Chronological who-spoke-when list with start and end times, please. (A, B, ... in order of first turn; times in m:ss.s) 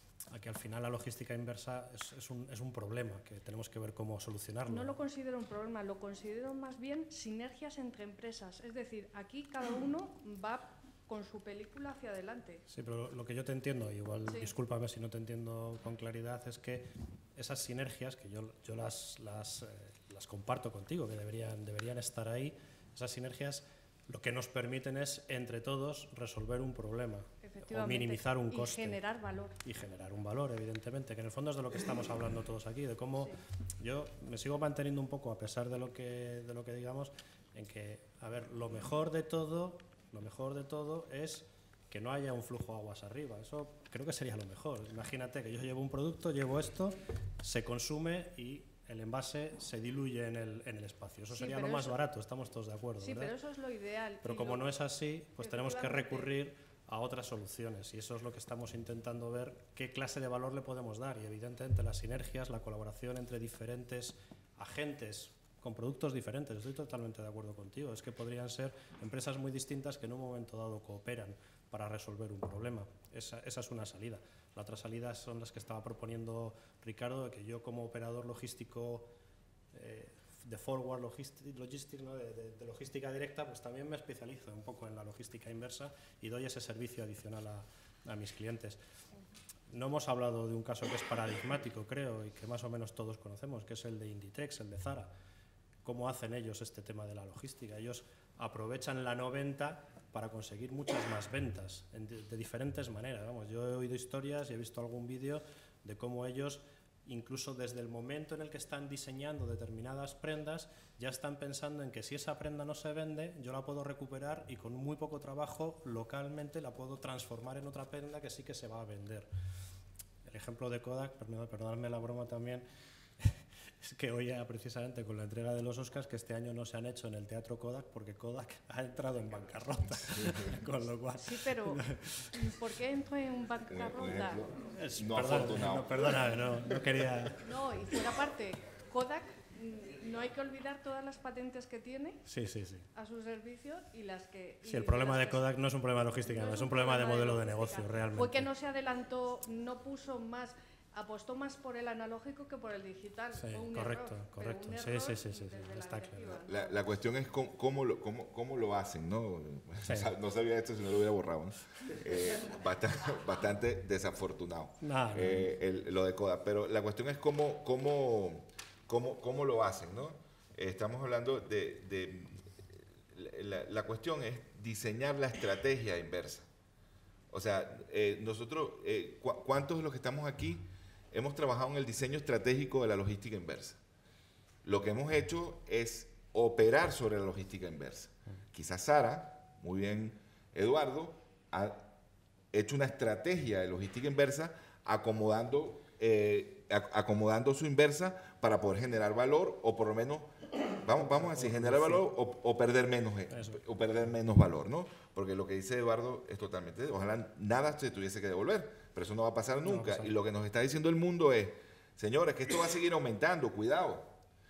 0:00.3-0:04.9 A
0:04.7-0:12.6 B
0:12.7-0:29.0 A
0:14.3-0:14.5 B
0:27.4-0:29.6 B
0:29.6-0:53.3 A
0:51.4-0:52.0 B
0:53.0-0:54.7 B
0:54.2-1:19.1 A
0:55.4-0:56.3 B
1:19.7-1:28.8 A
1:29.7-1:35.1 A
1:35.8-1:59.3 A
2:00.3-2:02.7 A
2:03.2-2:12.3 A
2:11.2-2:14.5 B
2:13.7-2:15.9 C
2:14.7-2:17.4 A
2:17.4-2:22.2 B
2:22.3-2:22.9 A
2:22.9-2:25.5 B
2:24.6-2:28.5 A
2:26.2-2:36.8 B
2:33.4-2:36.3 A
2:36.5-2:52.4 C
2:39.8-2:40.1 A
2:44.8-2:45.4 A
2:53.1-2:56.5 C
2:57.3-3:03.8 C
3:04.6-3:11.9 C
3:12.5-3:34.1 C
3:21.0-3:22.0 A
3:23.3-3:23.6 A
3:29.6-3:30.1 A